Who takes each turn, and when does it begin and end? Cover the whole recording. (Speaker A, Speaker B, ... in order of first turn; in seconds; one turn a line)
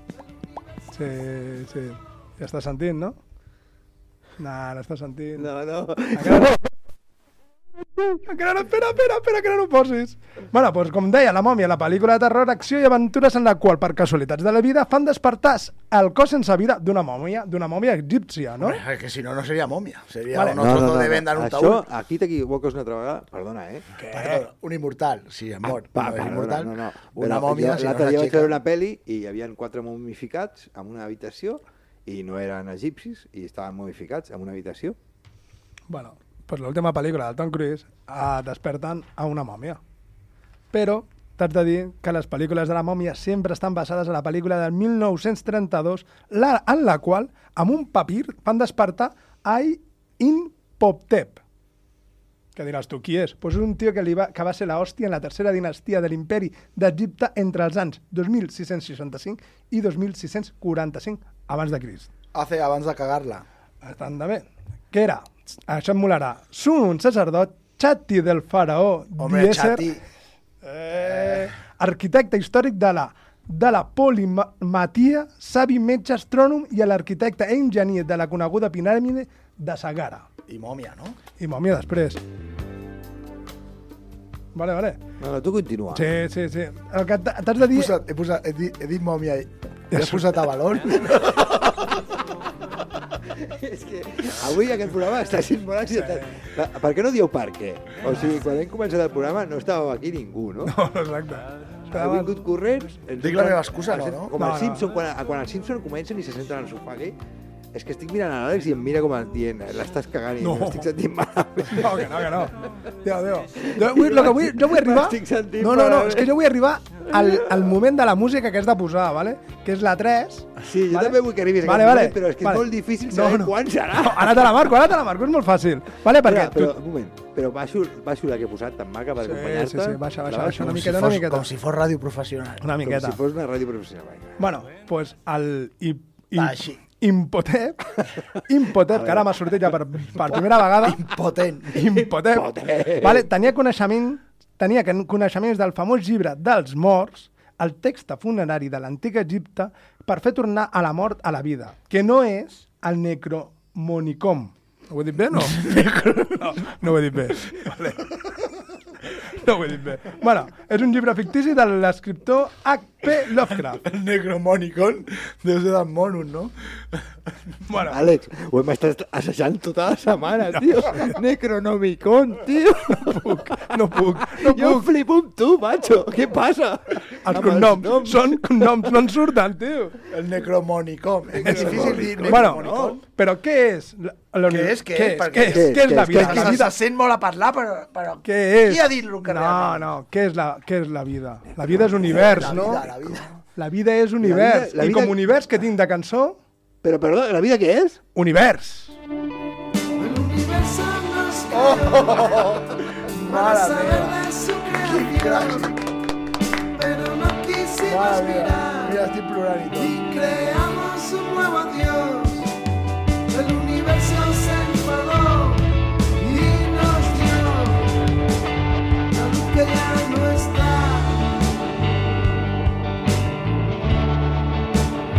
Speaker A: 0.9-3.2
Speaker A: 4.4-5.5
Speaker B: 5.3-6.7
Speaker A: 6.1-6.5
Speaker A: 8.2-18.8
Speaker C: 18.6-21.8
Speaker A: 20.3-20.6
Speaker B: 20.6-23.9
Speaker A: 24.0-24.4
Speaker C: 24.1-28.5
Speaker B: 25.6-35.0
Speaker A: 35.9-39.8
Speaker A: 40.7-51.4
Speaker A: 52.5-62.1
Speaker C: 62.3-63.4
Speaker A: 63.8-69.9
Speaker C: 69.2-70.0
Speaker A: 70.6-80.3
Speaker C: 80.5-81.2
Speaker A: 81.4-82.2
Speaker A: 84.5-85.0
Speaker B: 85.2-86.1
Speaker A: 85.9-87.9
Speaker C: 87.7-91.5
Speaker A: 89.9-90.2
Speaker B: 90.9-92.0
Speaker B: 93.2-100.7
Speaker A: 95.9-96.4
Speaker A: 100.6-102.4
Speaker B: 101.9-107.2
Speaker C: 103.2-104.3
Speaker A: 104.3-104.8
Speaker B: 107.7-112.5
Speaker A: 110.4-110.9
Speaker A: 111.7-126.7
Speaker B: 113.5-116.4
Speaker B: 117.1-117.7
Speaker B: 120.6-124.7
Speaker B: 126.1-131.1
Speaker A: 129.2-131.5
Speaker C: 130.7-132.7
Speaker A: 132.6-133.2
Speaker B: 132.8-134.4
Speaker A: 134.4-141.0
Speaker C: 136.3-136.8
Speaker B: 138.9-139.8
Speaker C: 140.6-142.0
Speaker A: 141.7-155.7
Speaker B: 142.2-143.3
Speaker C: 155.5-156.4
Speaker A: 156.4-158.2
Speaker A: 159.2-163.8
Speaker C: 163.7-166.5
Speaker A: 167.7-168.0
Speaker B: 167.9-178.9
Speaker A: 172.9-174.9
Speaker A: 177.2-180.0
Speaker C: 180.1-183.0
Speaker B: 181.3-183.0
Speaker A: 181.4-186.7
Speaker C: 184.4-189.9
Speaker B: 185.4-186.7
Speaker A: 188.2-192.8
Speaker B: 191.5-193.4
Speaker C: 191.9-193.3
Speaker A: 193.6-196.4
Speaker B: 194.2-195.3
Speaker B: 196.8-198.0
Speaker A: 198.1-199.0
Speaker D: 199.9-205.8
Speaker C: 201.5-204.2
Speaker C: 204.8-205.8
Speaker D: 206.7-209.1
Speaker C: 207.8-210.0
Speaker D: 209.7-212.5
Speaker D: 213.3-217.9
Speaker D: 219.1-221.3